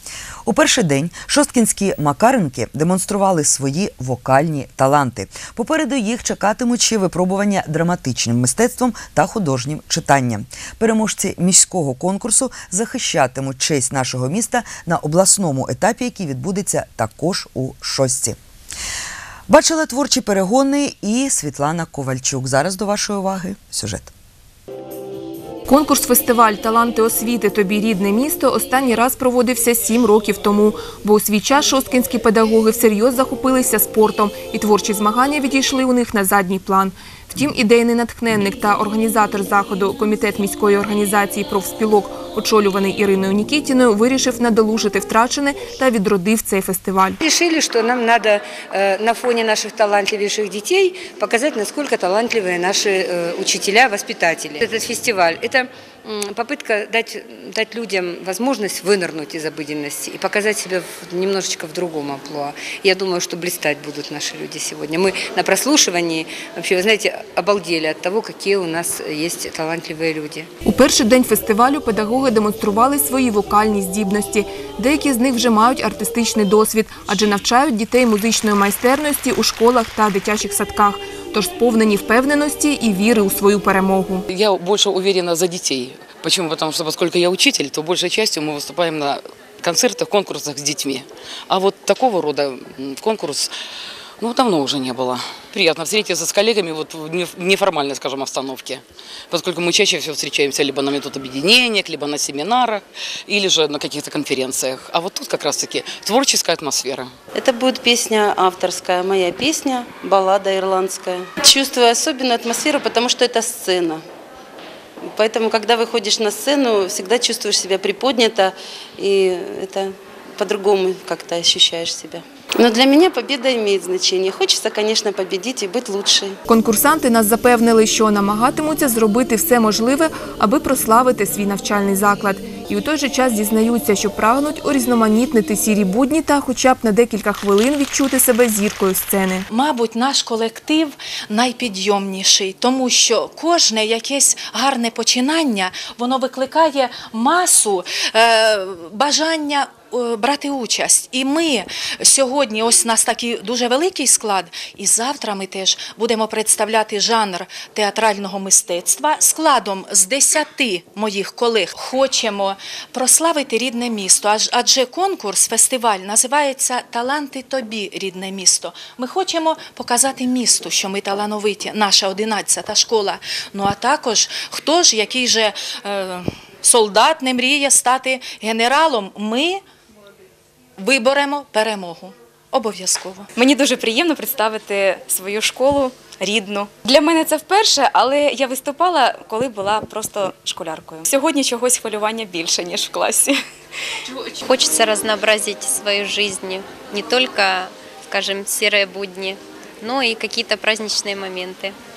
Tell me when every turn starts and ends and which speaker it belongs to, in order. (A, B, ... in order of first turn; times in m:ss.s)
0:00.5-0:18.4 A
0:19.5-0:24.1 A
0:25.7-0:47.2 B
0:47.2-1:10.5 C
1:10.6-1:24.3 B
1:24.3-1:33.5 D
1:34.2-1:47.1 D
1:47.4-1:54.0 E
1:55.0-2:06.4 E
2:06.5-2:19.5 B
2:19.5-2:59.6 F
3:00.8-3:03.3 F
3:03.4-3:13.4 G
3:14.5-3:21.8 H